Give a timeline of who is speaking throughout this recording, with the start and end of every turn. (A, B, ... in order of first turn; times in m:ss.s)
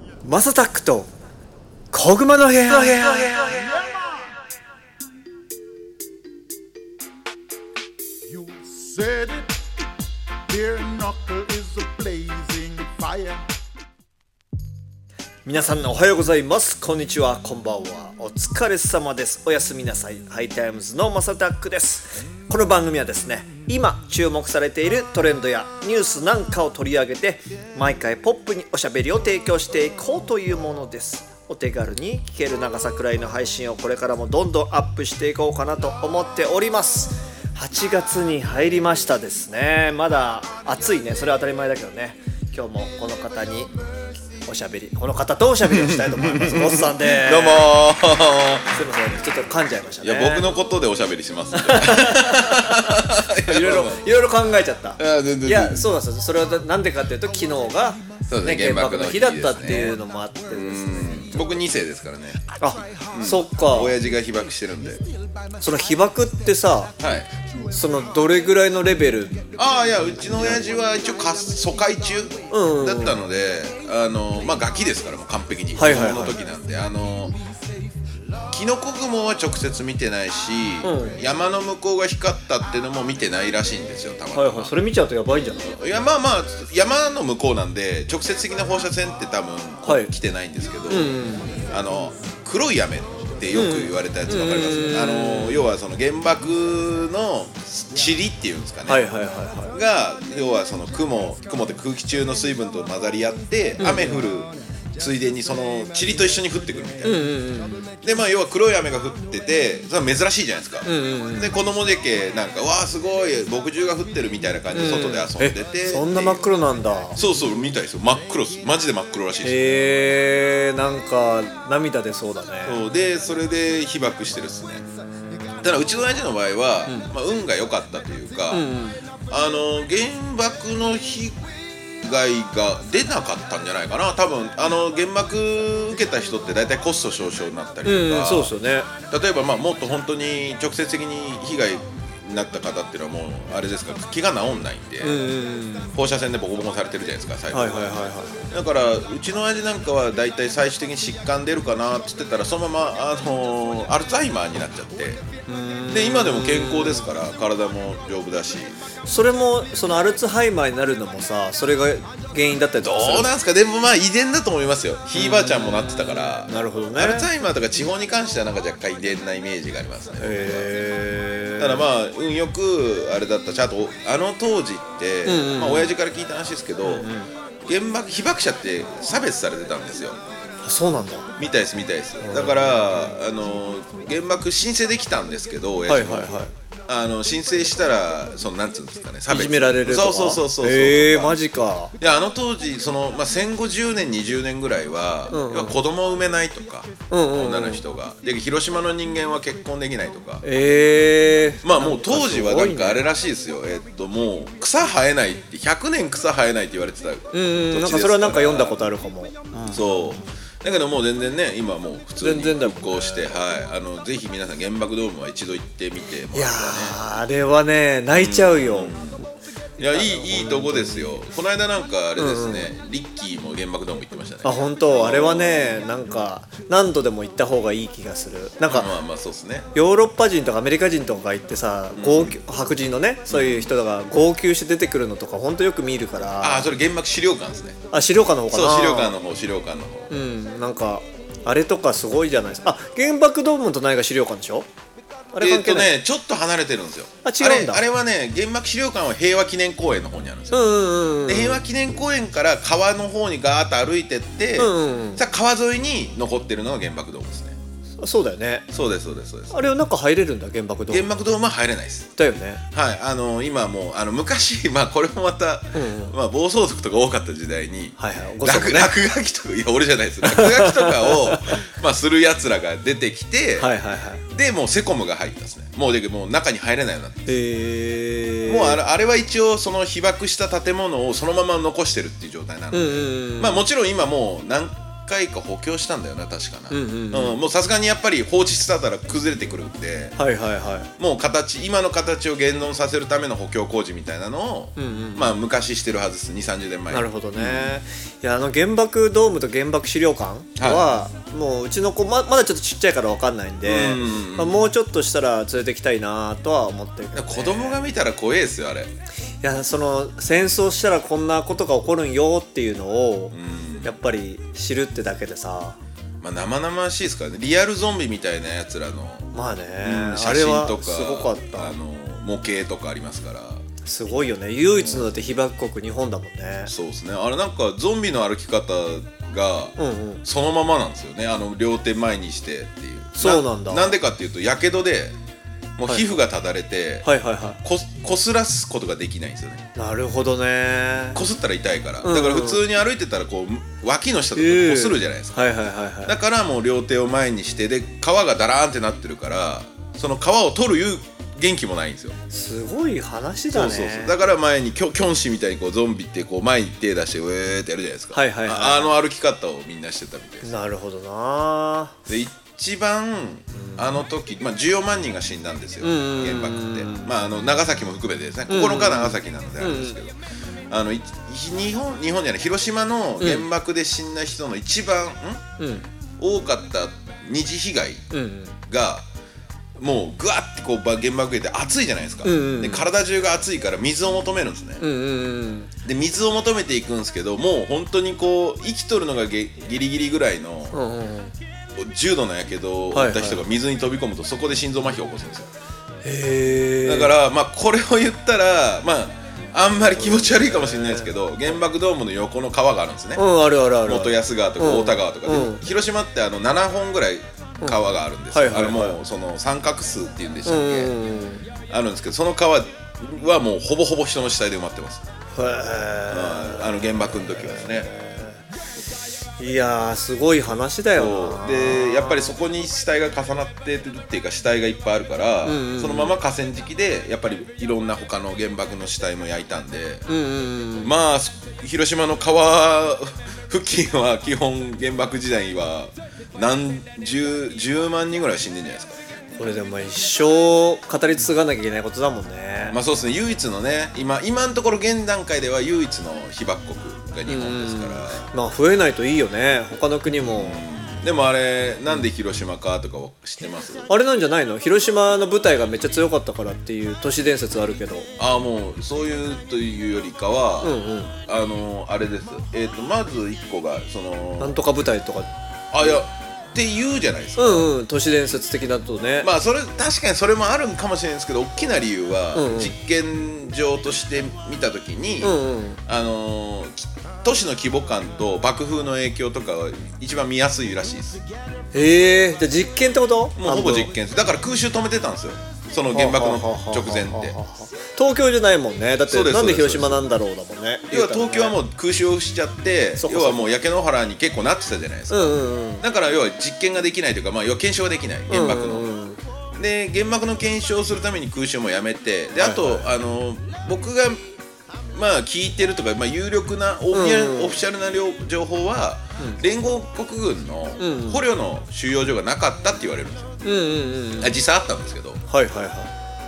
0:00.2-0:01.1 A
0:01.9-0:03.6 A
0:02.9-0:04.0 B
0:08.2-0:09.6 B
0:10.5-0:13.4 B
0:15.4-0:43.7 A
0:44.5-0:47.7 A
0:45.7-0:48.8 C
0:48.7-0:50.5 A
0:50.0-0:54.1 C
0:51.5-1:00.8 A
0:55.0-0:55.9 C
0:58.3-1:00.0 C
1:00.5-1:02.4 C
1:02.6-1:03.9 A
1:03.1-1:05.0 C
1:05.6-1:06.9 A
1:07.0-1:07.3 C
1:07.7-1:09.5 A
1:09.6-1:17.4 C
1:10.3-1:10.6 A
1:12.5-1:13.2 A
1:15.8-1:16.4 A
1:18.5-1:24.7 C
1:20.8-1:21.2 A
1:24.3-1:25.7 A
1:25.6-1:39.0 C
1:29.8-1:30.1 A
1:30.9-1:31.6 A
1:33.5-1:35.7 A
1:38.9-1:39.8 A
1:39.7-1:47.3 C
1:43.8-1:44.3 A
1:47.0-1:47.8 A
1:48.0-1:56.4 C
1:50.8-1:51.5 A
1:54.7-1:57.2 A
1:57.2-1:59.6 C
1:59.4-2:02.8 A
2:02.6-2:04.8 C
2:05.6-2:08.7 C
2:06.9-2:07.1 A
2:08.5-2:09.0 A
2:09.3-2:11.4 C
2:12.0-2:18.5 C
2:17.8-2:18.9 A
2:19.0-2:25.2 C
2:25.0-2:25.9 A
2:25.9-2:35.2 C
2:27.5-2:28.4 A
2:35.5-2:37.0 A
2:35.9-2:38.8 C
2:39.0-2:43.3 A
2:42.8-2:50.7 C
2:45.1-2:47.3 A
2:50.2-2:51.9 A
2:51.6-2:57.1 C
2:55.2-2:55.9 A
2:56.8-2:57.3 A
2:57.6-3:00.2 C
3:00.6-3:01.3 A
3:01.4-3:11.4 C
3:02.2-3:02.7 A
3:05.9-3:06.5 A
3:09.3-3:11.9 A
3:12.0-3:20.4 C
3:15.3-3:15.8 A
3:17.1-3:17.8 A
3:20.4-3:23.0 A
3:21.6-3:28.8 C
3:27.3-3:29.9 A
3:29.7-3:37.0 C
3:32.2-3:33.3 A
3:36.3-3:38.9 A
3:38.1-3:39.2 C
3:39.8-3:45.8 C
3:39.8-3:41.0 A
3:42.2-3:42.7 A
3:44.4-3:48.9 A
3:48.7-3:49.7 C
3:49.7-3:56.7 A
3:51.9-3:52.4 C
3:53.3-3:53.7 C
3:56.4-3:57.8 C
3:57.9-3:59.1 A
3:58.5-4:00.1 C
4:00.1-4:04.7 A
4:05.3-4:05.9 A
4:05.4-4:10.6 C
4:07.2-4:07.8 A
4:10.5-4:11.6 A
4:11.2-4:17.6 C
4:14.6-4:15.2 A
4:18.0-4:18.6 A
4:18.7-4:19.6 C
4:19.5-4:21.0 A
4:20.9-4:22.1 C
4:22.2-4:22.6 A
4:22.7-4:33.7 C
4:25.7-4:26.1 A
4:28.0-4:28.9 A
4:30.2-4:31.6 A
4:33.6-4:34.2 A
4:34.3-4:37.3 C
4:37.3-4:38.8 A
4:38.5-4:50.2 C
4:42.7-4:43.6 A
4:46.7-4:47.4 A
4:50.2-4:50.9 A
4:51.0-4:57.7 C
4:54.8-4:55.4 A
4:56.9-5:07.8 A
5:00.6-5:00.9 C
5:03.6-5:04.6 C
5:07.1-5:08.9 C
5:09.4-5:15.8 A
5:13.3-5:13.9 C
5:16.2-5:23.6 C
5:19.3-5:21.7 A
5:23.8-5:26.7 A
5:24.7-5:25.2 C
5:26.7-5:35.1 C
5:29.8-5:30.2 A
5:33.2-5:34.0 A
5:35.8-5:37.1 C
5:37.0-5:37.6 A
5:37.6-5:39.7 C
5:39.7-5:41.2 A
5:41.1-5:45.5 C
5:42.0-5:42.6 A
5:44.4-5:46.1 A
5:46.0-5:52.2 C
5:52.3-5:54.1 A
5:53.5-6:00.5 C
5:58.1-5:58.9 A
6:00.4-6:02.0 A
6:02.1-6:10.2 C
6:03.5-6:03.8 A
6:05.8-6:07.1 A
6:08.5-6:10.0 A
6:10.7-6:15.4 C
6:13.2-6:13.4 A
6:15.6-6:15.9 A
6:16.2-6:18.1 C
6:18.1-6:18.6 A
6:18.7-6:19.0 C
6:19.8-6:24.8 C
6:22.2-6:22.9 A
6:24.8-6:25.7 A
6:25.8-6:30.8 C
6:30.7-6:31.3 A
6:31.8-6:35.5 C
6:32.9-6:33.4 A
6:36.0-6:37.1 A
6:36.8-6:43.3 C
6:39.9-6:41.1 A
6:43.2-6:45.6 A
6:43.8-6:51.0 C
6:47.6-6:49.0 A
6:50.4-6:51.4 A
6:51.7-6:55.0 C
6:55.3-6:58.4 A
6:56.1-6:57.9 C
6:59.4-7:02.3 A
7:00.9-7:10.0 C
7:05.4-7:06.2 A
7:10.1-7:10.9 A
7:10.8-7:19.0 C
7:19.4-7:22.8 A
7:22.7-7:28.3 C
7:27.3-7:30.6 A
7:30.4-7:33.9 C
7:33.9-7:38.1 A
7:38.2-7:44.6 C
7:40.6-7:41.1 A
7:44.4-7:45.3 A
7:45.7-7:47.7 C
7:47.4-7:49.3 A
7:49.2-8:01.2 C
7:52.3-7:52.7 A
7:55.2-7:55.8 A
8:01.7-8:03.9 A
8:03.4-8:07.4 C
8:05.9-8:11.6 A
8:09.1-8:10.1 C
8:10.9-8:18.9 C
8:13.0-8:13.5 A
8:15.1-8:15.8 A
8:18.3-8:19.2 A
8:19.6-8:24.2 C
8:22.4-8:22.8 A
8:24.9-8:33.4 C
8:26.9-8:27.6 A
8:30.8-8:31.2 A
8:33.4-8:34.3 A
8:34.2-8:35.2 C
8:35.3-8:35.9 A